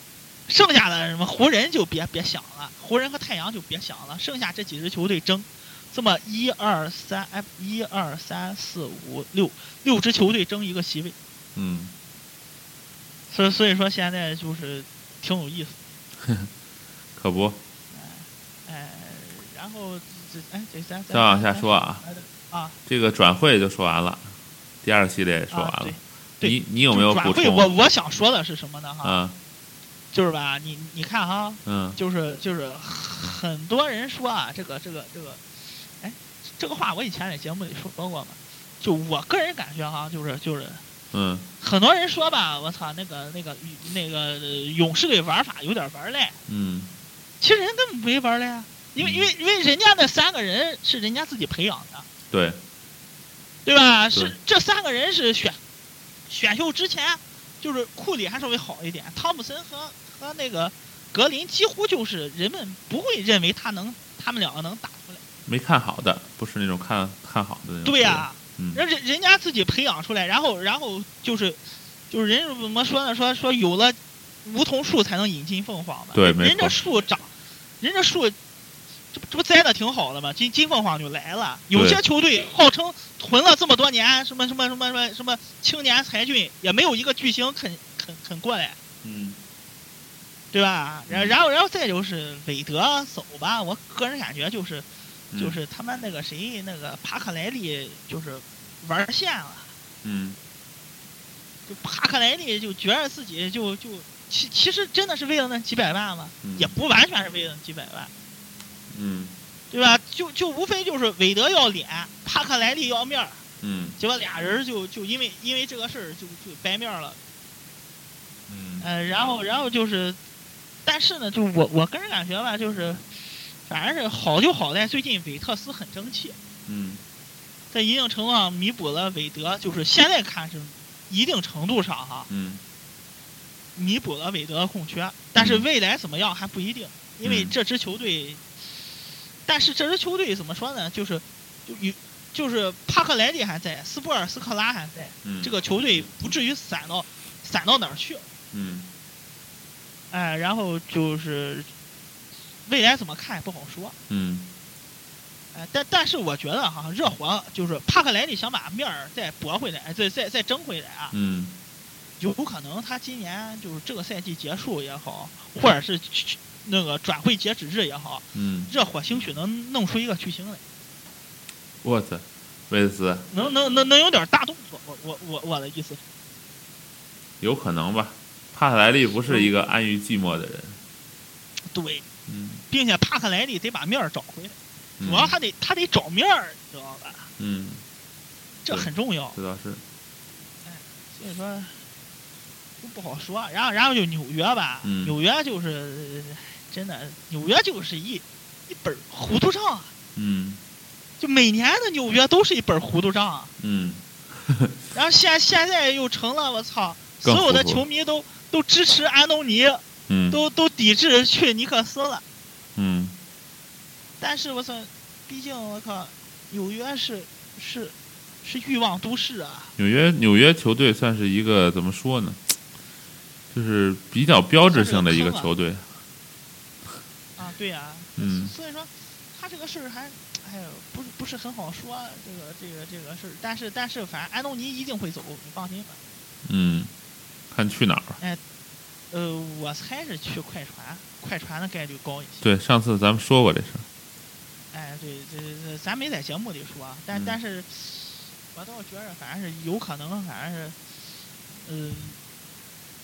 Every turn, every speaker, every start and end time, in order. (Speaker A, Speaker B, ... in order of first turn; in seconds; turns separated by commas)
Speaker A: 0.5-11.2, Speaker B: 11.6-11.9, Speaker A: 13.3-15.8, Speaker B: 16.2-16.5, Speaker B: 17.2-17.6, Speaker A: 17.9-22.8, Speaker B: 21.1-22.0, Speaker B: 22.9-27.7, Speaker A: 25.5-29.2, Speaker B: 29.0-29.4, Speaker A: 30.1-35.4, Speaker B: 31.6-32.0, Speaker A: 36.0-40.8, Speaker B: 41.1-41.5, Speaker A: 41.6-46.4, Speaker B: 46.5-46.9, Speaker A: 47.4-52.1, Speaker B: 49.0-49.3, Speaker B: 52.3-52.6, Speaker A: 53.6-55.6, Speaker A: 56.3-65.2, Speaker B: 65.5-68.8, Speaker A: 67.8-77.3, Speaker B: 76.1-76.8, Speaker A: 77.8-78.4, Speaker A: 79.1-88.8, Speaker B: 81.7-82.0, Speaker B: 89.0-89.4, Speaker A: 90.5-99.7, Speaker B: 91.1-91.3, Speaker B: 95.3-95.6, Speaker B: 100.0-100.4, Speaker A: 101.7-108.1, Speaker B: 106.4-106.7, Speaker B: 108.9-109.3, Speaker A: 109.7-113.4, Speaker B: 113.6-114.0, Speaker A: 114.0-117.2, Speaker B: 118.5-118.9, Speaker A: 118.8-120.2, Speaker A: 120.8-123.0, Speaker A: 123.7-126.4, Speaker B: 126.7-127.0, Speaker A: 127.7-132.3, Speaker B: 132.3-132.6, Speaker A: 133.8-138.4, Speaker B: 135.4-135.7, Speaker B: 137.2-137.5, Speaker A: 139.4-148.2, Speaker B: 145.2-145.5, Speaker B: 148.5-148.9, Speaker A: 150.1-151.7, Speaker A: 152.7-154.0, Speaker B: 154.1-154.5, Speaker A: 155.5-161.1, Speaker B: 161.1-161.6, Speaker A: 162.2-170.6, Speaker B: 168.3-168.7, Speaker B: 171.8-173.3, Speaker A: 173.3-176.0, Speaker B: 177.4-180.8, Speaker A: 179.3-179.5, Speaker A: 181.7-182.1, Speaker B: 182.3-182.6, Speaker A: 182.7-187.3, Speaker B: 185.0-185.3, Speaker B: 187.4-187.8, Speaker A: 188.7-189.4, Speaker B: 188.7-189.8, Speaker A: 190.6-191.8, Speaker A: 192.8-199.9, Speaker B: 194.8-195.2, Speaker B: 200.2-200.6, Speaker A: 201.2-203.5, Speaker B: 203.6-204.8, Speaker A: 204.9-212.2, Speaker B: 207.2-207.8, Speaker B: 210.1-210.4, Speaker B: 212.8-213.2, Speaker A: 214.2-219.7, Speaker B: 219.8-222.4, Speaker B: 223.5-225.9, Speaker A: 224.7-225.5, Speaker A: 227.4-236.0, Speaker B: 228.2-228.5, Speaker B: 236.4-236.9, Speaker B: 237.5-238.2, Speaker A: 239.1-242.4, Speaker B: 242.4-243.8, Speaker A: 244.7-250.8, Speaker B: 247.1-247.4, Speaker A: 251.7-252.2